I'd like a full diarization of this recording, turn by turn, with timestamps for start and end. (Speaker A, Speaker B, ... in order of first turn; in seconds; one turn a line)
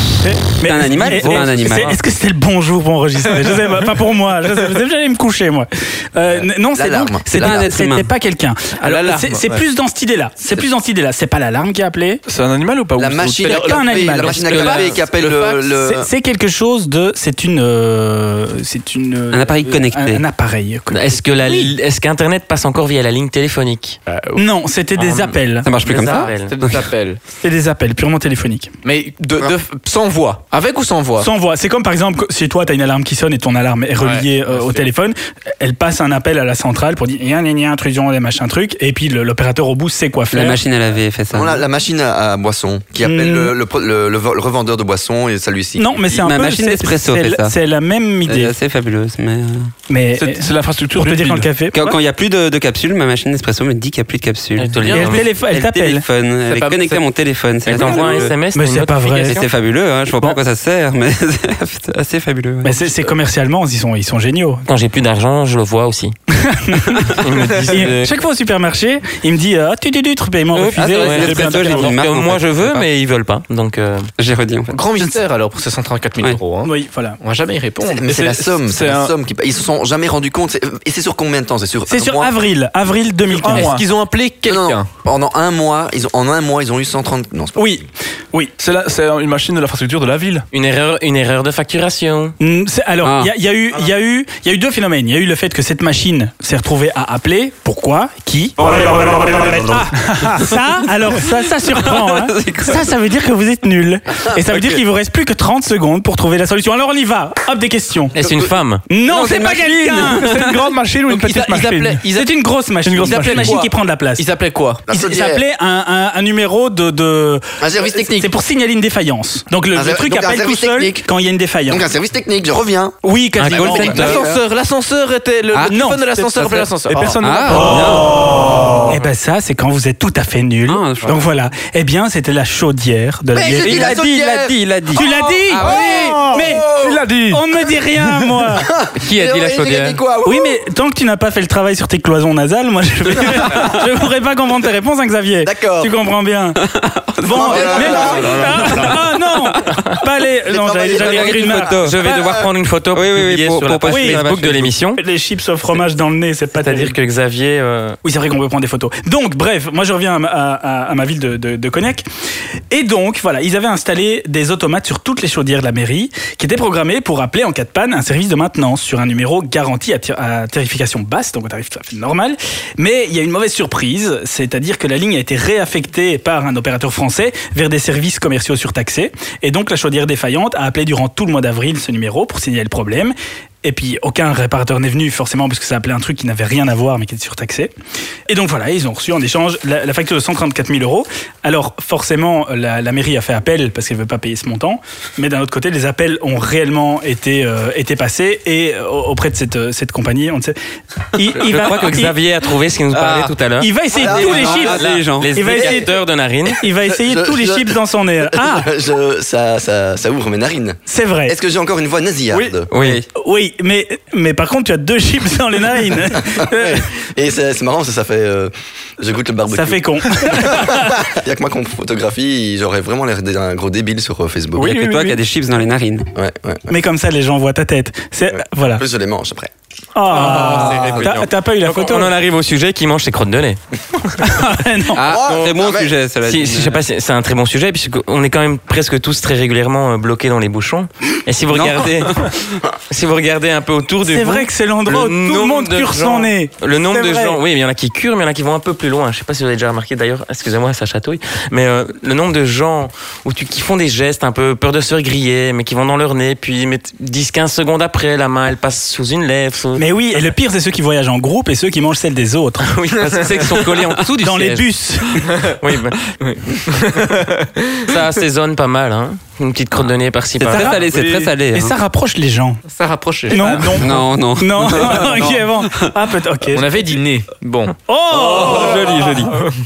Speaker A: 0.4-12.2
Speaker B: 0.6-2.0
Speaker C: 1.1-1.4
Speaker D: 6.3-7.7
Speaker B: 7.4-8.1
Speaker E: 8.8-9.6
Speaker F: 12.3-13.6
Speaker D: 13.0-16.1
Speaker E: 13.4-15.7
Speaker A: 13.4-14.6
Speaker C: 14.5-14.9
Speaker A: 15.8-21.7
Speaker B: 19.3-20.2
Speaker C: 20.9-24.0
Speaker E: 24.1-24.4
Speaker A: 24.4-25.7
Speaker C: 25.0-26.5
Speaker B: 25.6-26.8
Speaker E: 25.9-27.2
Speaker A: 27.4-28.7
Speaker E: 28.8-31.3
Speaker A: 31.2-40.6
Speaker E: 34.0-34.8
Speaker B: 40.3-41.6
Speaker D: 41.3-46.2
Speaker A: 43.0-43.5
Speaker A: 45.8-48.5
Speaker B: 46.2-47.5
Speaker B: 48.2-49.7
Speaker A: 49.9-52.0
Speaker F: 50.2-51.5
Speaker B: 51.7-58.4
Speaker C: 54.6-55.3
Speaker A: 54.9-56.0
Speaker E: 56.5-57.0
Speaker C: 57.7-59.4
Speaker E: 57.7-58.2
Speaker A: 57.9-59.4
Speaker B: 59.2-63.1
Speaker A: 62.6-64.6
Speaker C: 64.7-66.1
Speaker A: 66.3-67.2
Speaker C: 67.2-68.1
Speaker E: 67.3-67.8
Speaker A: 67.7-71.9
Speaker C: 70.5-74.1
Speaker B: 70.8-72.8
Speaker F: 71.1-71.9
Speaker B: 74.2-74.8
Speaker E: 74.7-78.1
Speaker A: 76.6-77.2
Speaker D: 77.8-82.3
Speaker F: 78.0-79.1
Speaker A: 81.9-83.7
Speaker F: 83.3-83.8
Speaker E: 83.5-84.9
Speaker D: 84.5-87.8
Speaker A: 87.5-88.5
Speaker F: 88.6-90.5
Speaker C: 90.5-92.3
Speaker A: 92.4-108.1
Speaker B: 93.0-93.3
Speaker F: 100.1-100.4
Speaker B: 101.8-102.8
Speaker C: 108.1-108.8
Speaker D: 108.2-108.5
Speaker A: 108.9-110.4
Speaker B: 109.0-110.7
Speaker F: 110.0-112.0
Speaker E: 111.0-112.3
Speaker A: 112.1-114.2
Speaker F: 112.8-113.6
Speaker E: 113.0-114.8
Speaker D: 114.9-115.4
Speaker A: 114.9-121.8
Speaker D: 117.6-118.3
Speaker D: 119.7-121.0
Speaker D: 121.7-123.0
Speaker A: 123.0-124.0
Speaker C: 123.4-124.2
Speaker E: 123.4-127.2
Speaker D: 123.5-124.4
Speaker A: 125.7-126.2
Speaker F: 126.8-128.6
Speaker B: 127.2-128.2
Speaker A: 127.6-128.0
Speaker A: 128.9-133.9
Speaker B: 130.7-131.2
Speaker D: 133.3-137.0
Speaker B: 133.5-135.1
Speaker A: 134.9-136.7
Speaker B: 135.6-135.9
Speaker F: 136.7-137.4
Speaker A: 137.3-138.7
Speaker D: 138.6-140.6
Speaker C: 139.0-140.0
Speaker A: 140.2-146.6
Speaker D: 145.4-145.9
Speaker B: 146.7-148.9
Speaker A: 147.2-151.8
Speaker D: 147.3-148.7
Speaker D: 150.4-152.5
Speaker B: 150.9-154.8
Speaker C: 151.8-155.0
Speaker A: 153.9-154.2
Speaker A: 155.0-156.9
Speaker C: 156.6-158.0
Speaker A: 158.0-162.0
Speaker A: 162.7-187.7
Speaker A: 188.3-200.6
Speaker A: 201.1-202.2
Speaker C: 201.3-206.6
Speaker B: 202.9-203.3
Speaker A: 203.6-204.8
Speaker D: 203.9-204.8
Speaker B: 203.9-205.8
Speaker A: 205.3-205.9
Speaker A: 206.6-208.7
Speaker D: 206.8-212.7
Speaker A: 210.9-211.3
Speaker C: 212.7-213.0
Speaker B: 212.7-213.0
Speaker A: 213.1-216.8
Speaker D: 216.2-224.8
Speaker A: 219.5-221.1
Speaker B: 224.6-226.1
Speaker A: 224.7-225.1
Speaker D: 226.1-226.7
Speaker A: 226.7-228.8
Speaker D: 228.3-229.5
Speaker A: 229.9-232.1
Speaker C: 230.1-233.6
Speaker B: 230.4-230.9
Speaker A: 234.2-235.0
Speaker B: 234.9-236.8
Speaker D: 235.0-235.9
Speaker C: 235.1-235.5
Speaker C: 236.2-242.3
Speaker B: 241.5-242.3
Speaker C: 242.9-259.8
Speaker A: 244.1-247.4
Speaker A: 259.8-262.7
Speaker C: 262.6-264.6
Speaker E: 263.0-264.0
Speaker A: 264.2-265.3
Speaker C: 265.6-266.8
Speaker E: 266.7-267.9
Speaker C: 267.8-270.8
Speaker B: 270.4-271.7
Speaker A: 270.5-271.0
Speaker A: 271.5-272.6
Speaker E: 272.7-274.0
Speaker A: 273.3-276.6
Speaker F: 273.4-273.7
Speaker B: 273.8-275.7
Speaker E: 274.8-275.4
Speaker E: 276.5-277.7
Speaker A: 277.9-279.2
Speaker B: 278.1-279.3